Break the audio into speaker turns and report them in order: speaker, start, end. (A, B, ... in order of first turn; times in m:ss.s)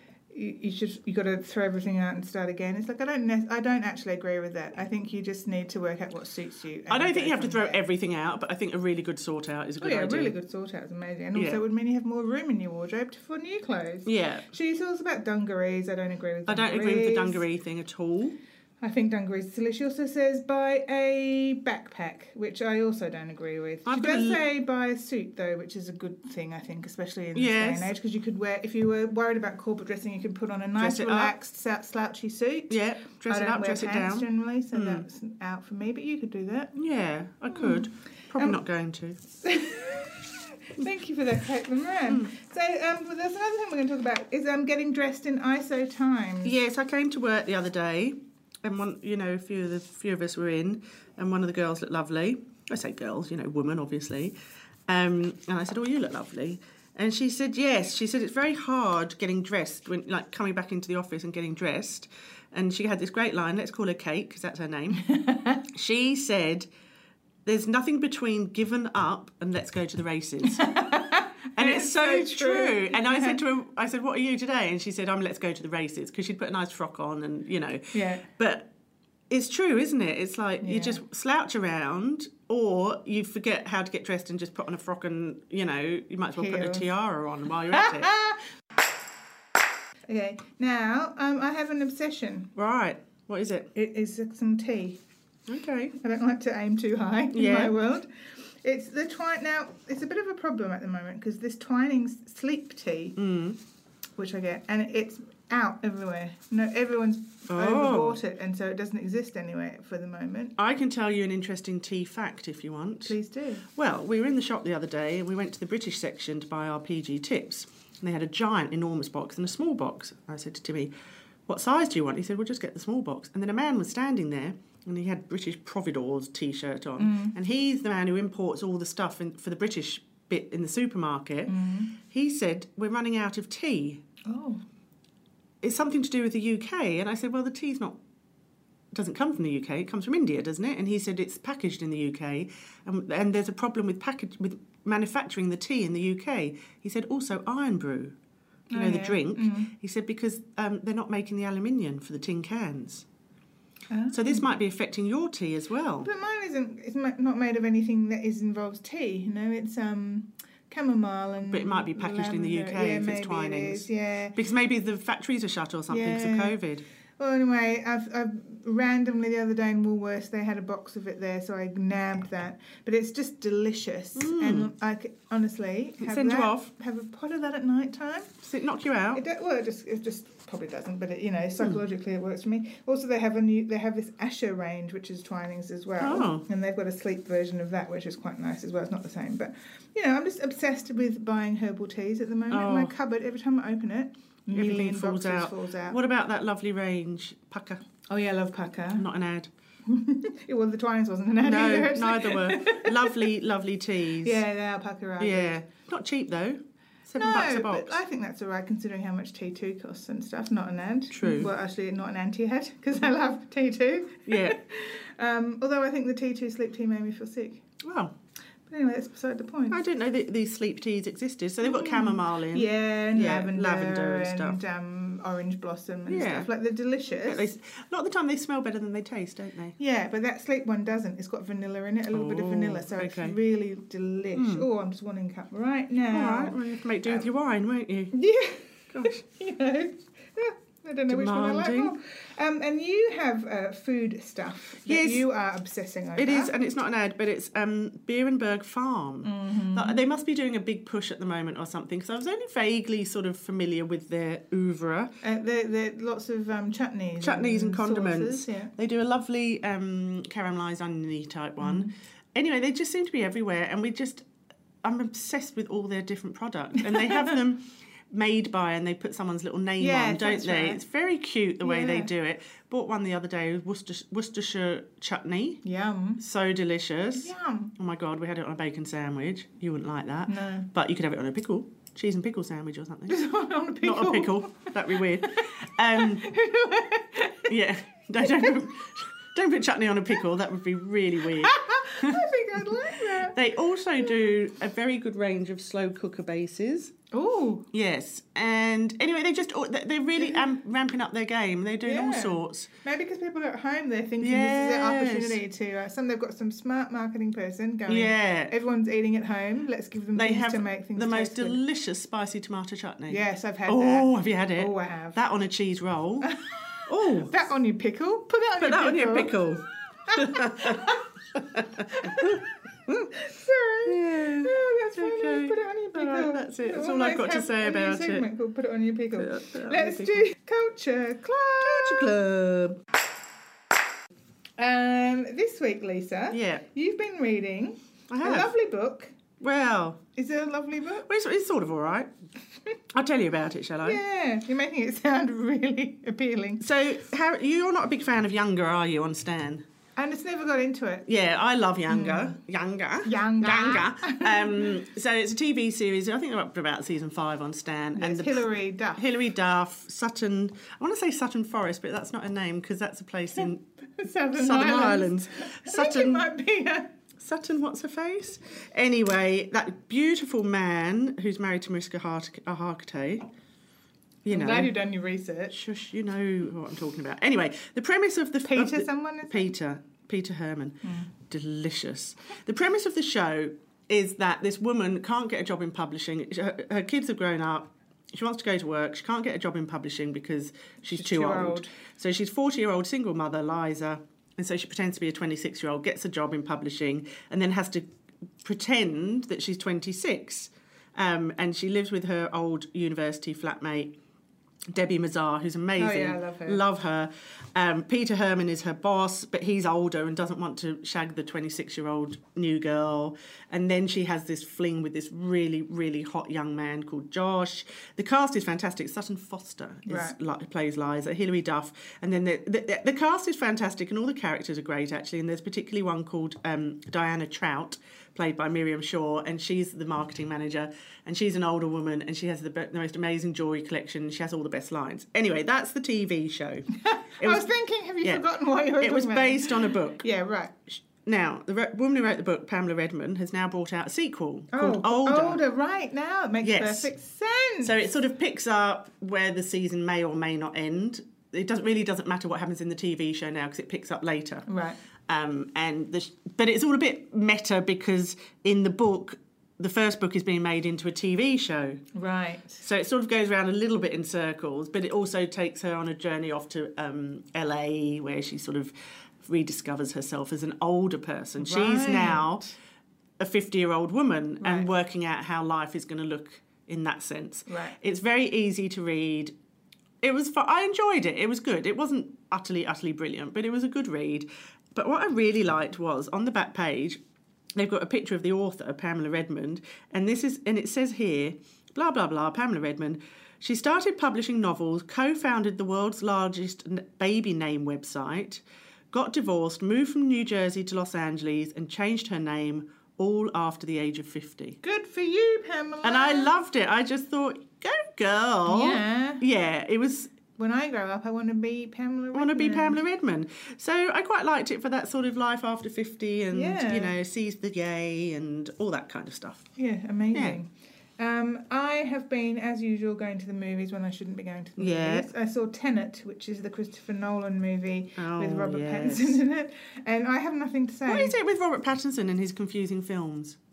0:00.3-0:07.8 A
0:06.9-0:10.4 B
0:09.8-0:17.4 A
0:11.3-0:11.6 B
0:14.0-0:14.5 B
0:16.5-0:18.4 B
0:18.8-0:36.8 A
0:23.8-0:24.4 B
0:27.3-0:27.9 B
0:30.8-0:31.3 B
0:32.7-0:35.0 B
0:36.8-0:39.2 B
0:37.5-0:38.6 A
0:39.4-0:46.5 A
0:46.4-0:54.3 B
0:54.9-1:05.0 B
1:05.0-1:05.6 A
1:05.7-1:06.7 B
1:07.4-1:11.0 B
1:10.4-1:13.4 A
1:11.6-1:18.7 B
1:17.9-1:18.3 A
1:19.3-1:28.1 B
1:20.6-1:21.0 A
1:26.3-1:26.8 A
1:27.7-1:28.5 A
1:30.1-1:32.5 A
1:32.6-1:33.7 B
1:33.7-1:35.0 A
1:35.5-1:36.0 B
1:36.0-1:38.1 A
1:37.3-1:37.7 B
1:38.6-1:43.2 A
1:43.2-1:43.6 B
1:44.2-1:50.6 A
1:47.5-1:48.2 B
1:50.6-1:53.2 B
1:53.0-1:53.7 A
1:53.7-2:00.9 B
2:01.5-2:14.0 B
2:07.0-2:07.4 A
2:11.5-2:12.0 A
2:14.2-2:14.6 A
2:15.6-2:18.0 B
2:18.9-2:28.2 B
2:28.7-2:29.7 A
2:28.7-2:33.0 B
2:33.9-2:34.5 A
2:34.1-2:36.1 B
2:36.0-2:44.4 A
2:41.4-2:46.8 B
2:45.9-2:46.6 A
2:47.2-2:58.3 A
2:54.2-2:54.7 B
2:56.0-2:56.7 B
2:58.4-2:59.2 B
2:59.1-3:16.0 A
3:06.0-3:06.4 B
3:12.5-3:12.9 B
3:14.5-3:17.8 B
3:18.1-3:19.1 A
3:19.0-3:19.5 B
3:19.8-3:23.3 A
3:21.4-3:24.4 B
3:24.2-3:25.6 A
3:25.2-3:28.0 B
3:27.2-3:37.6 A
3:31.1-3:31.5 B
3:34.3-3:34.6 B
3:37.8-3:38.1 B
3:38.7-3:39.8 A
3:39.7-3:44.6 B
3:41.6-3:47.5 A
3:46.1-3:46.5 B
3:47.2-3:49.8 B
3:49.8-3:57.3 A
3:52.1-3:53.4 B
3:54.3-3:54.6 B
3:56.1-3:58.1 B
3:58.1-4:06.5 A
3:58.9-3:59.1 B
4:01.1-4:01.9 B
4:04.8-4:05.2 B
4:06.2-4:15.1 B
4:09.2-4:10.0 A
4:15.2-4:18.7 A
4:17.2-4:24.2 B
4:21.6-4:21.9 A
4:24.8-4:35.6 B
4:26.8-4:27.4 A
4:29.8-4:30.8 A
4:31.6-4:32.1 A
4:35.6-4:36.2 A
4:36.2-4:43.2 B
4:37.1-4:37.7 A
4:40.3-4:40.7 A
4:43.1-4:47.5 A
4:43.8-4:46.3 B
4:47.5-4:52.2 B
4:48.2-4:48.6 A
4:51.3-4:53.4 A
4:53.1-4:56.9 B
4:57.1-4:57.7 A
4:57.7-5:02.7 B
5:00.2-5:00.5 A
5:01.8-5:11.6 A
5:04.2-5:05.4 B
5:07.9-5:08.5 B
5:10.1-5:16.3 B
5:13.1-5:15.2 A
5:16.2-5:19.4 A
5:16.9-5:17.3 B
5:18.6-5:22.4 B
5:20.0-5:32.1 A
5:23.8-5:28.2 B
5:29.2-5:30.2 B
5:31.6-5:32.8 B
5:34.6-5:39.2 A
5:36.3-5:36.6 B
5:38.1-5:38.5 B
5:39.4-5:40.0 B
5:40.2-5:41.1 A
5:41.0-5:42.1 B
5:42.9-5:44.0 B
5:43.8-5:46.6 A
5:46.6-5:49.6 B
5:50.0-5:51.0 A
5:51.1-6:03.6 B
5:51.9-5:52.4 A
5:53.0-5:54.8 A
5:58.0-5:59.0 A
6:03.4-6:06.9 A
6:04.3-6:06.2 B
6:07.2-6:13.2 B
6:14.2-6:14.7 B
6:14.3-6:15.6 A
6:15.5-6:37.8 B
6:18.4-6:19.5 A
6:20.8-6:21.1 A
6:30.9-6:31.7 A
6:38.4-6:44.0 B
6:44.7-7:16.7 B
6:45.8-6:46.6 A
6:59.8-7:00.2 A
7:16.7-7:20.8 A
7:17.2-7:17.5 B
7:18.8-7:20.0 B
7:20.8-7:25.4 B
7:24.5-7:27.7 A
7:26.4-7:26.9 B
7:27.6-7:34.4 B
7:34.5-7:34.8 A
7:35.1-7:41.8 B
7:41.9-7:42.6 A
7:42.6-7:52.5 B
7:51.4-7:52.5 A
7:53.2-7:59.3 B
7:54.4-7:54.7 A
7:57.5-7:57.8 A
8:00.0-8:07.0 B
8:07.5-8:24.6 B
8:24.6-8:26.3 A
8:25.8-8:30.2 B
8:28.4-8:29.2 A
8:30.3-8:32.8 A
8:32.1-8:39.5 B
8:36.3-8:36.9 A
8:39.6-8:51.2 A
8:40.1-8:40.4 B
8:44.6-8:45.1 B
8:48.0-8:49.2 B
8:50.9-8:53.4 B